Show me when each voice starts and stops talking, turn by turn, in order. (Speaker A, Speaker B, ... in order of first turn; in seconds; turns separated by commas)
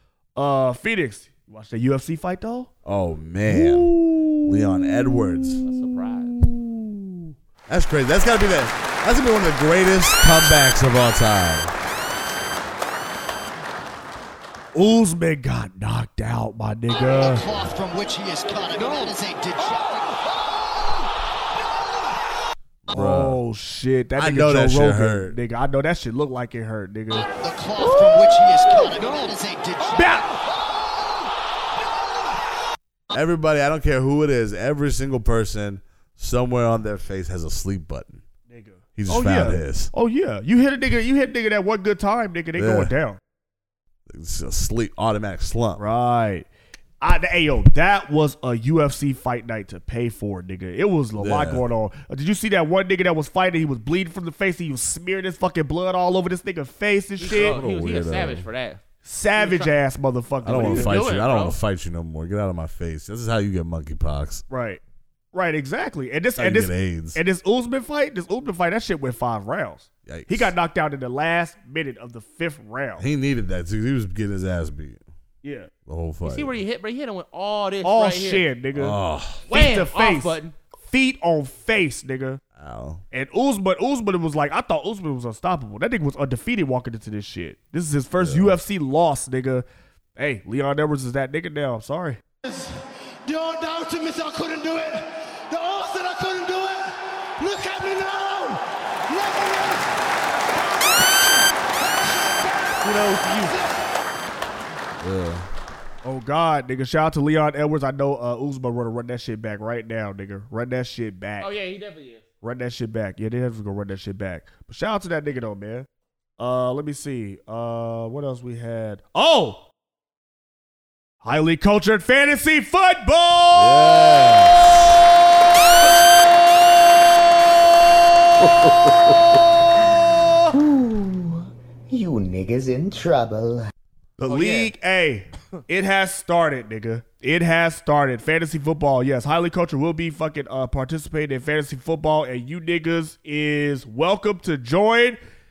Speaker A: 0.3-2.7, Speaker B: 2.9-5.6, Speaker A: 3.5-5.8, Speaker C: 5.6-6.3, Speaker A: 6.3-7.2, Speaker B: 7.7-11.7, Speaker A: 14.7-17.5, Speaker D: 16.9-20.0, Speaker B: 22.9-23.4, Speaker A: 22.9-29.0, Speaker B: 24.2-25.4, Speaker D: 27.1-30.2, Speaker A: 29.8-30.3, Speaker B: 33.1-38.2, Speaker A: 38.5-43.2, Speaker B: 39.0-39.9, Speaker B: 42.5-42.9, Speaker B: 44.1-45.8, Speaker A: 45.8-46.5, Speaker A: 47.0-57.6, Speaker B: 51.2-51.6, Speaker C: 57.2-58.8, Speaker B: 57.2-58.5, Speaker A: 59.0-61.0, Speaker C: 59.4-59.7, Speaker B: 60.4-64.4, Speaker C: 60.5-61.6, Speaker A: 64.5-64.8, Speaker A: 65.3-73.0, Speaker B: 66.3-67.2, Speaker B: 70.0-70.5, Speaker B: 73.0-75.0, Speaker A: 75.4-75.7, Speaker B: 75.8-76.6, Speaker C: 76.2-78.4, Speaker A: 77.8-79.0, Speaker B: 78.7-79.4, Speaker C: 79.5-80.5, Speaker A: 79.5-82.4, Speaker B: 82.5-83.0, Speaker A: 83.1-92.2, Speaker B: 88.2-88.6, Speaker D: 92.4-103.9, Speaker C: 102.8-103.5, Speaker B: 105.0-105.5, Speaker A: 106.0-111.5, Speaker C: 111.4-112.2, Speaker A: 112.4-115.9, Speaker A: 116.4-119.6, Speaker A: 121.2-124.0, Speaker B: 123.5-125.0, Speaker E: 130.5-133.7, Speaker A: 134.2-145.2, Speaker C: 134.3-134.7